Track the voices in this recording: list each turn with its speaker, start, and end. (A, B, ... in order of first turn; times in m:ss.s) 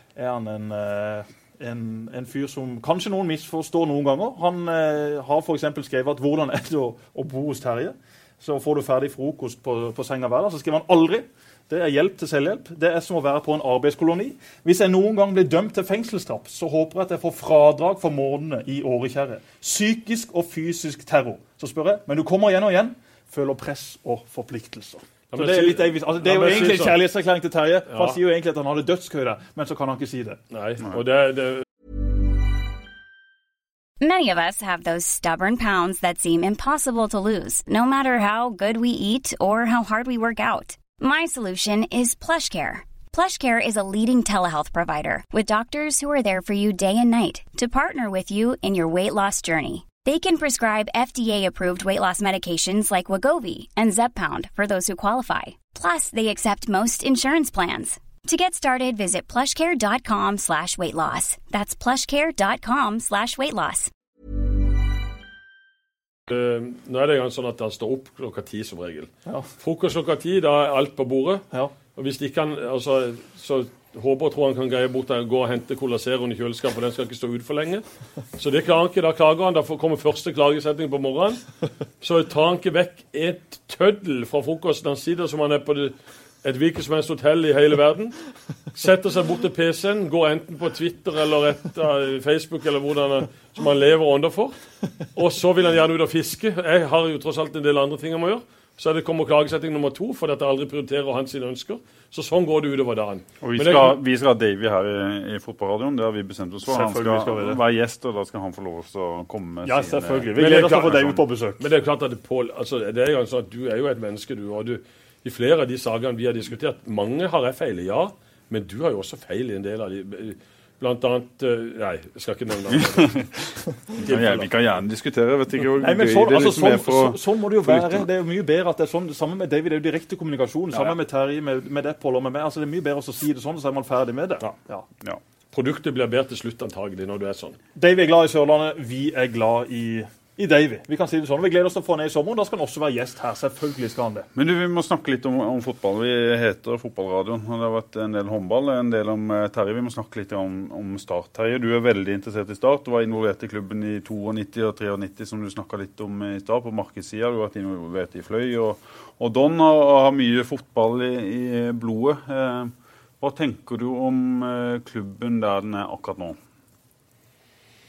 0:00.2-0:30.4 A
0:25.3-0:27.0 B
0:27.9-0:28.2 B
0:30.5-0:31.6 B
0:34.0-1:03.9 C
1:06.3-1:17.8 B
1:18.4-1:21.5 B
1:22.0-1:28.2 B
1:28.7-1:34.6 B
1:35.2-1:44.0 B
1:43.4-1:50.4 D
1:46.6-1:47.6 A
1:49.6-1:51.6 A
1:50.4-2:03.3 B
2:02.7-2:03.5 D
2:04.0-2:04.5 B
2:04.0-2:08.1 D
2:05.8-2:14.8 A
2:15.5-2:17.6 B
2:17.8-2:24.3 A
2:24.4-2:46.4 D